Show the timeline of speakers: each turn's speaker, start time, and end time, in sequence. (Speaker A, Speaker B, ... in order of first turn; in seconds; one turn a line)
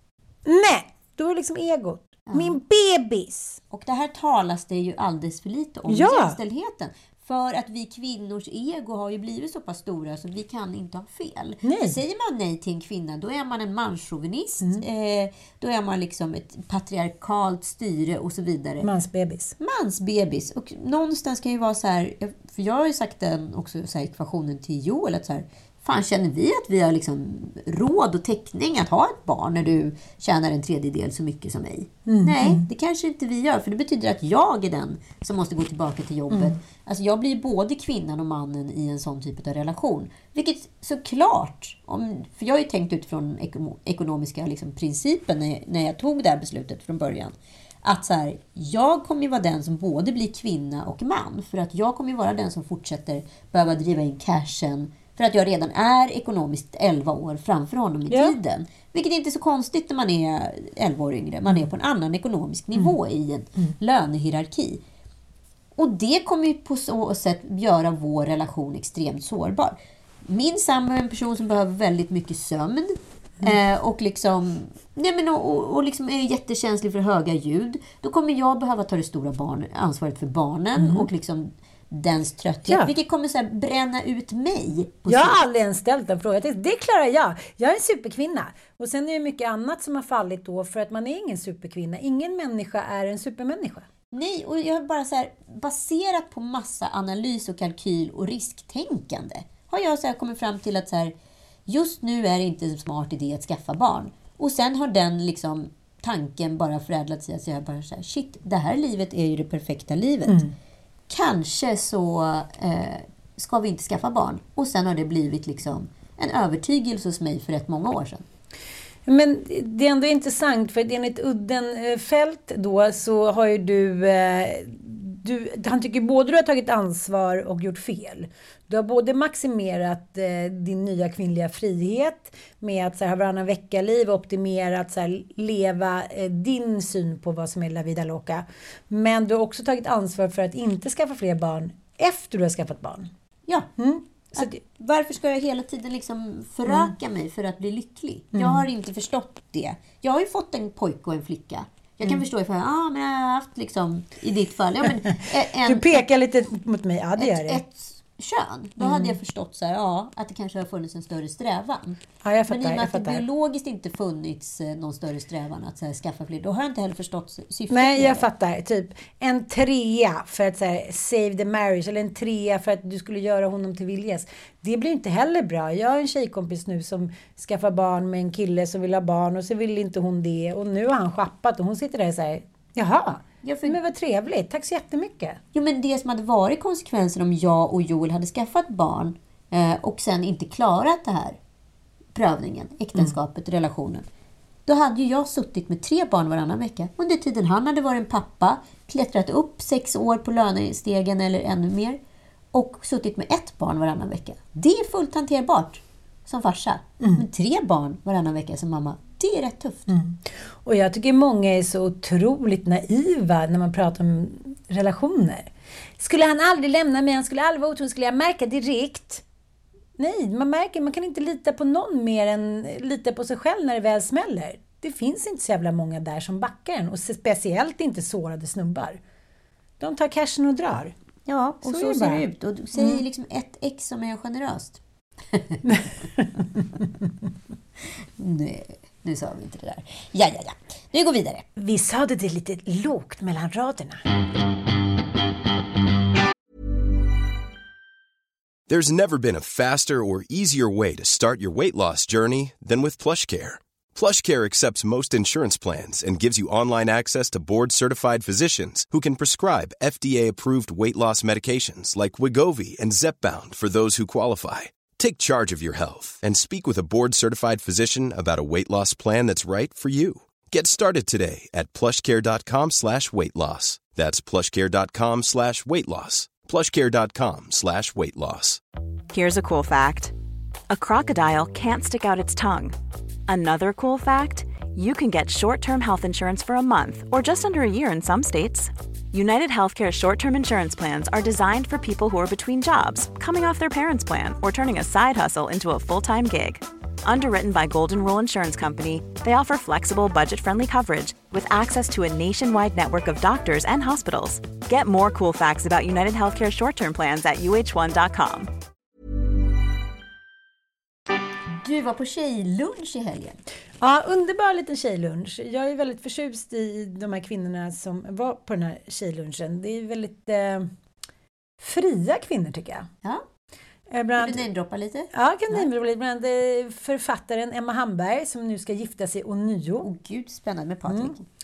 Speaker A: 0.4-3.6
Speaker B: 2.3-2.5
Speaker B: 3.7-18.9
Speaker A: 5.9-6.4
Speaker A: 11.6-12.0
Speaker A: 18.8-19.5
Speaker B: 19.6-64.8
Speaker A: 32.0-32.6
Speaker A: 36.3-36.6
Speaker A: 58.1-58.4
Speaker B: 65.8-85.4
Speaker A: 80.8-81.1
Speaker A: 82.7-82.9
Speaker A: 85.1-93.9
Speaker B: 94.1-101.1
Speaker B: 101.7-110.4
Speaker A: 110.2-110.5
Speaker B: 111.1-118.2
Speaker A: 119.0-143.1
Speaker A: 143.8-144.6
Speaker B: 144.3-156.0
Speaker A: 146.7-146.9
Speaker A: 148.3-148.7
Speaker A: 155.6-157.6
Speaker B: 157.2-168.2
Speaker A: 158.8-159.2
Speaker A: 162.2-163.2
Speaker A: 167.7-185.4
Speaker B: 183.4-183.8
Speaker B: 185.5-191.4
Speaker B: 192.1-194.1
Speaker B: 194.7-202.0
Speaker B: 202.5-209.9
Speaker A: 209.9-219.2
Speaker A: 220.0-229.0
Speaker A: 229.8-230.9
Speaker B: 231.2-234.8
Speaker A: 231.6-232.2
Speaker A: 232.8-233.0
Speaker B: 235.3-235.6
Speaker A: 235.7-236.8
Speaker B: 238.2-241.4
Speaker A: 241.6-244.0
Speaker C: 248.7-278.6
Speaker D: 279.1-280.1
Speaker D: 280.7-282.7
Speaker D: 283.3-308.5
Speaker B: 311.6-313.4
Speaker A: 313.8-320.7
Speaker A: 321.6-322.9
Speaker A: 323.9-324.4
Speaker B: 324.2-325.6
Speaker A: 325.1-329.9
Speaker B: 329.8-331.2
Speaker A: 330.9-331.1